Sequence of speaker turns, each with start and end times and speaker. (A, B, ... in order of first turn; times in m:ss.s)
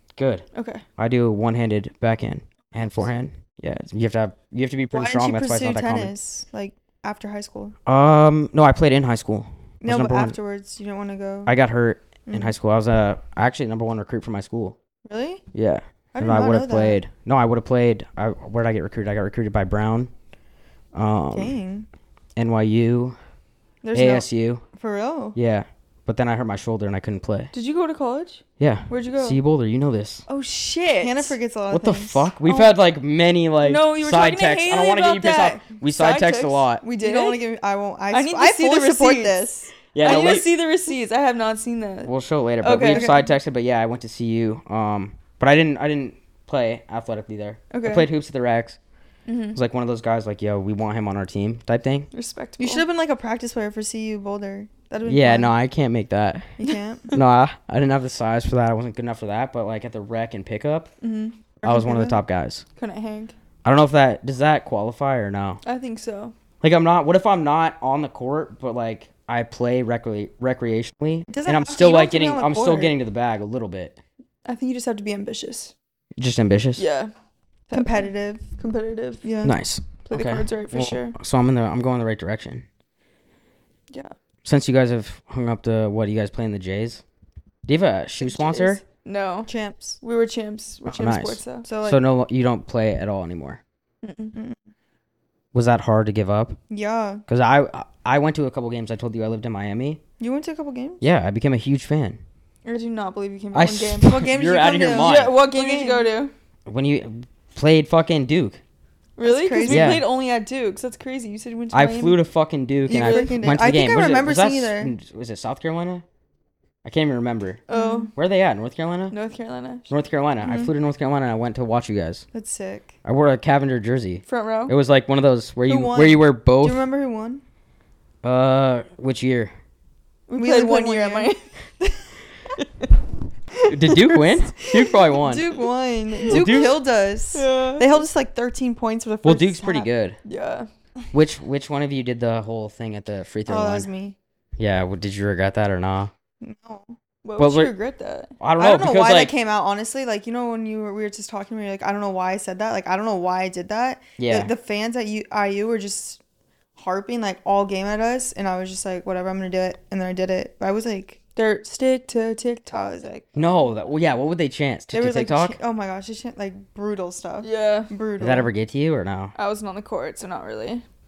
0:00.2-0:00.4 A
0:00.5-0:00.8 B
0:01.0-0:06.1 A
0:04.9-0:07.8 C
0:07.9-0:10.4 A
0:09.8-0:11.5 C
0:11.5-0:14.8 A
0:12.3-0:12.5 C
0:15.0-0:15.4 C
0:15.5-0:20.1 A
0:16.1-0:17.0 C
0:20.9-0:21.5 A
0:21.3-0:21.9 C
0:22.4-0:23.2 A
0:23.8-0:25.4 C
0:23.9-0:24.6 A
0:25.4-0:27.5 A
0:27.5-0:29.4 B
0:28.6-0:30.3 A
0:30.3-0:31.4 B
0:31.0-0:32.2 C
0:31.7-0:36.8 A
0:32.4-0:32.8 B
0:33.6-0:37.4 B
0:36.9-0:40.4 C
0:38.1-0:39.5 B
0:39.9-0:40.5 A
0:40.0-0:42.1 B
0:42.0-0:48.8 A
0:42.6-0:43.1 B
0:42.8-0:43.3 C
0:47.7-0:48.1 B
0:49.3-0:49.6 B
0:49.5-0:52.1 A
0:52.1-0:52.8 B
0:52.6-0:55.5 C
0:55.1-0:56.6 A
0:56.6-0:57.1 C
0:57.1-1:00.9 A
1:01.0-1:01.4 B
1:01.6-1:02.2 C
1:01.6-1:02.6 A
1:02.8-1:03.4 B
1:03.6-1:05.6 A
1:05.6-1:06.4 B
1:06.6-1:14.0 A
1:11.3-1:13.0 C
1:14.4-1:15.7 B
1:16.2-1:16.8 A
1:16.8-1:17.1 B
1:17.7-1:19.4 B
1:17.7-1:18.5 C
1:19.2-1:19.6 C
1:19.4-1:22.7 A
1:20.0-1:21.2 B
1:24.4-1:27.0 A
1:27.7-1:28.8 A
1:28.2-1:31.7 B
1:29.5-1:30.0 C
1:30.9-1:33.6 A
1:31.6-1:32.0 C
1:34.0-1:34.3 B
1:35.5-1:36.6 A
1:36.7-1:37.2 C
1:37.3-1:40.0 A
1:40.2-1:41.0 C
1:41.0-1:42.2 A
1:42.6-1:44.1 B
1:43.5-1:45.4 A
1:44.0-1:46.1 C
1:44.9-1:46.3 B
1:46.7-1:48.6 A
1:49.2-1:52.2 B
1:49.2-1:50.0 C
1:49.7-1:50.1 A
1:51.7-1:56.0 A
1:52.9-1:53.4 B
1:52.9-1:54.9 C
1:56.8-1:57.6 A
1:57.7-1:58.1 B
1:57.7-1:58.1 C
1:58.2-1:59.2 A
1:59.1-1:59.9 B
1:59.9-2:02.3 A
2:00.5-2:00.7 C
2:02.3-2:02.9 C
2:03.0-2:06.8 A
2:04.3-2:04.7 B
2:05.6-2:07.4 C
2:08.2-2:09.5 A
2:10.3-2:11.4 B
2:10.4-2:11.3 C
2:12.6-2:12.9 B
2:13.6-2:15.1 B
2:13.7-2:15.4 A
2:15.2-2:19.9 C
2:16.2-2:16.6 B
2:16.3-2:16.7 A
2:17.3-2:18.0 B
2:19.2-2:20.2 A
2:20.2-2:20.7 B
2:21.1-2:23.9 A
2:23.5-2:24.2 C
2:24.6-2:26.1 A
2:26.4-2:27.0 C
2:27.2-2:28.3 B
2:27.4-2:27.7 A
2:28.4-2:29.3 A
2:28.6-2:36.2 C
2:34.2-2:34.5 A
2:36.8-2:41.2 C
2:41.4-2:43.3 B
2:42.7-2:43.1 C
2:43.4-2:45.6 A
2:44.9-2:48.5 C
2:47.4-2:47.9 B
2:48.2-2:49.3 A
2:49.4-2:50.8 B